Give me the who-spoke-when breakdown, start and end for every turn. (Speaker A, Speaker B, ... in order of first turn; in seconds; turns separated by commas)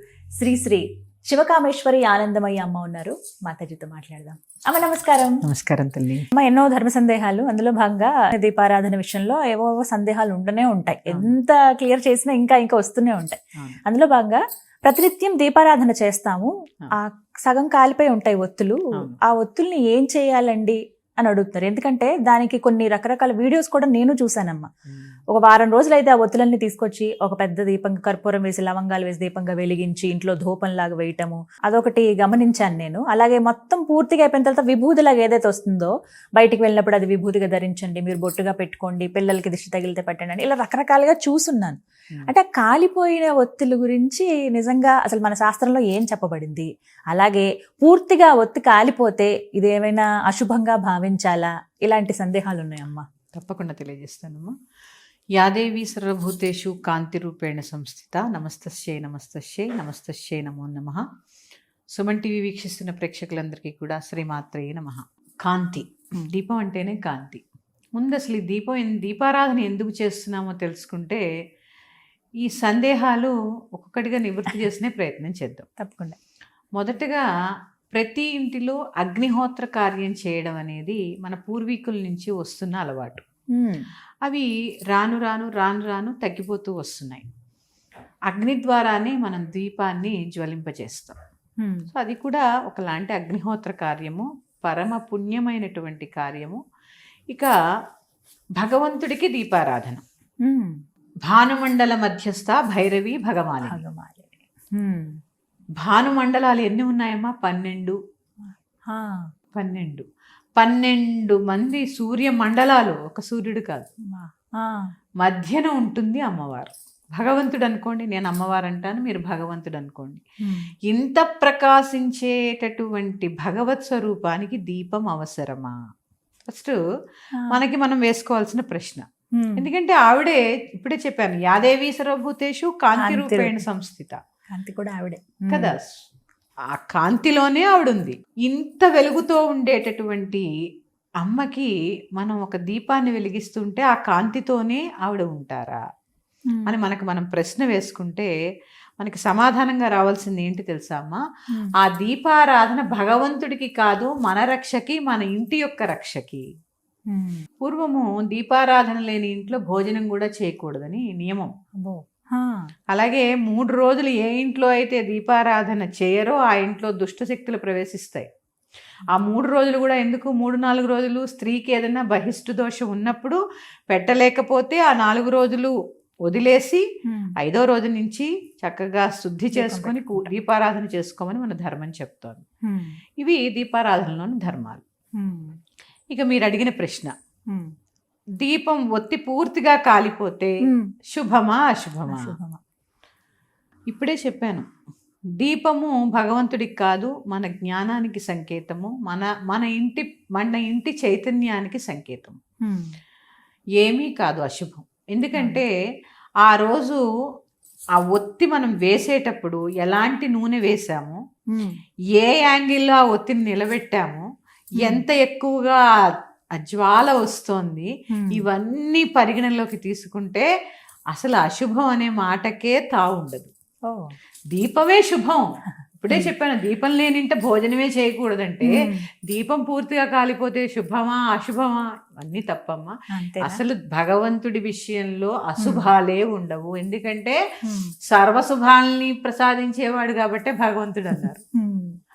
Speaker A: 0.3-5.4, Speaker B: 5.4-6.2, Speaker A: 6.3-24.6, Speaker B: 11.1-11.3, Speaker A: 25.3-53.0, Speaker B: 53.3-54.5, Speaker B: 55.4-61.0, Speaker B: 62.0-67.4, Speaker B: 67.9-71.2, Speaker B: 72.4-75.7, Speaker A: 75.8-76.2, Speaker B: 76.8-77.2, Speaker B: 77.9-83.2, Speaker A: 83.5-83.9, Speaker B: 84.2-87.2, Speaker B: 88.3-91.2, Speaker A: 91.6-91.9, Speaker B: 91.9-96.6, Speaker B: 98.6-100.0, Speaker A: 100.5-100.7, Speaker B: 101.3-103.8, Speaker A: 103.6-105.1, Speaker B: 105.8-108.0, Speaker B: 109.5-110.0, Speaker B: 110.6-113.9, Speaker A: 114.1-114.8, Speaker B: 115.2-120.2, Speaker A: 120.4-120.7, Speaker B: 120.9-125.7, Speaker B: 126.5-126.8, Speaker B: 127.5-129.0, Speaker A: 129.4-129.7, Speaker B: 129.6-134.2, Speaker A: 133.0-133.6, Speaker A: 134.5-135.7, Speaker B: 135.5-135.9, Speaker B: 136.7-140.4, Speaker B: 141.2-145.8, Speaker A: 146.5-146.8, Speaker B: 146.7-148.3, Speaker B: 149.0-151.2, Speaker B: 151.8-156.4, Speaker A: 157.1-157.4, Speaker B: 157.6-161.5, Speaker A: 161.8-162.7, Speaker B: 162.9-168.3, Speaker B: 169.1-175.7, Speaker B: 176.2-176.8, Speaker A: 177.1-177.3, Speaker B: 177.4-182.4, Speaker A: 179.5-180.3, Speaker A: 182.7-183.0, Speaker B: 183.2-184.8, Speaker A: 185.2-185.5, Speaker B: 186.1-187.1, Speaker B: 188.4-190.5, Speaker B: 191.1-192.3, Speaker A: 192.1-192.6, Speaker B: 193.9-194.7, Speaker B: 195.4-202.4, Speaker A: 202.7-202.9, Speaker B: 203.8-205.7, Speaker A: 205.3-205.6, Speaker B: 206.4-207.0, Speaker B: 208.0-211.2, Speaker B: 212.2-214.2, Speaker A: 214.8-215.0, Speaker B: 214.8-215.8, Speaker B: 216.6-220.5, Speaker A: 218.1-218.4, Speaker B: 221.1-223.5, Speaker A: 223.9-224.1, Speaker B: 224.5-225.4, Speaker B: 226.0-237.4, Speaker A: 228.6-229.0, Speaker A: 233.1-233.6, Speaker A: 235.6-235.9, Speaker A: 237.6-237.9, Speaker B: 238.1-241.4, Speaker A: 241.6-241.9